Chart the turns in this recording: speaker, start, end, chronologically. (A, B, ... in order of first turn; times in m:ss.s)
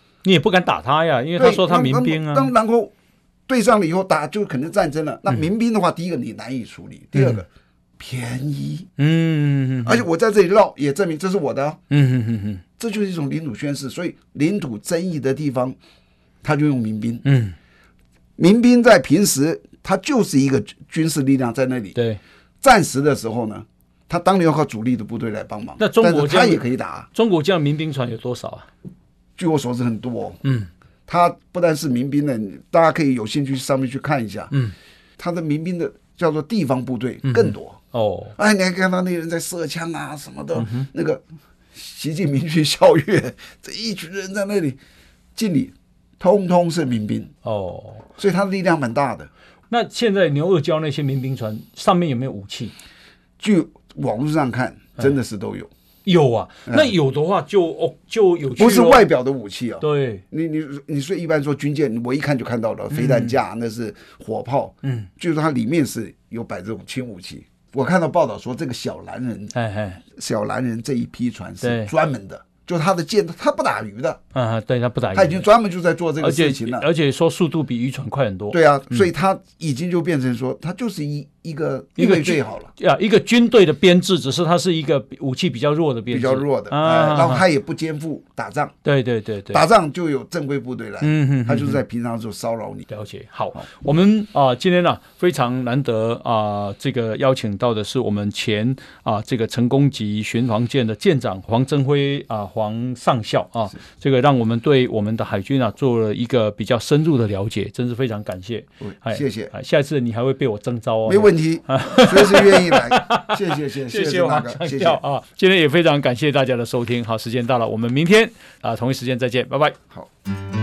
0:00.2-0:02.5 A
0:01.4-0:02.9 B
0:03.5-0:07.5 B
0:07.1-0:07.4 A
0:08.0-0:08.9 B
0:09.0-0:10.0 A
0:09.8-0:11.8 B
0:11.9-0:12.6 A
0:12.8-0:15.8 B
0:16.4-0:17.2 B
0:17.2-0:17.6 A
0:18.4-0:22.0 B
0:21.9-0:22.2 A
0:22.6-0:27.1 B
0:25.8-0:28.7 A
0:29.4-0:30.4 B
0:30.4-0:30.7 A
0:31.1-0:34.5 B
0:35.2-0:37.8 B
0:37.2-0:38.3 A
0:38.4-0:41.2 B
0:40.5-0:40.9 A
0:41.7-0:44.8 B
0:45.3-0:47.3 B
0:47.4-0:48.1 A
0:48.2-0:49.3 B
0:49.7-0:52.7 A
0:53.4-0:55.7 B
0:56.0-0:59.0 A
0:56.7-0:56.9 B
0:58.6-1:09.5 B
0:59.8-1:00.2 A
1:02.9-1:03.4 A
1:04.8-1:05.1 A
1:09.5-1:10.0 A
1:10.1-1:14.2 B
1:11.6-1:11.9 A
1:14.3-1:15.5 A
1:15.1-1:16.9 B
1:16.2-1:19.1 A
1:18.5-1:22.7 B
1:22.0-1:27.4 A
1:26.1-1:28.7 B
1:28.8-1:29.6 A
1:29.5-1:32.9 B
1:31.0-1:31.8 A
1:32.9-1:59.8 A
1:48.8-1:49.5 B
1:51.0-1:55.0 B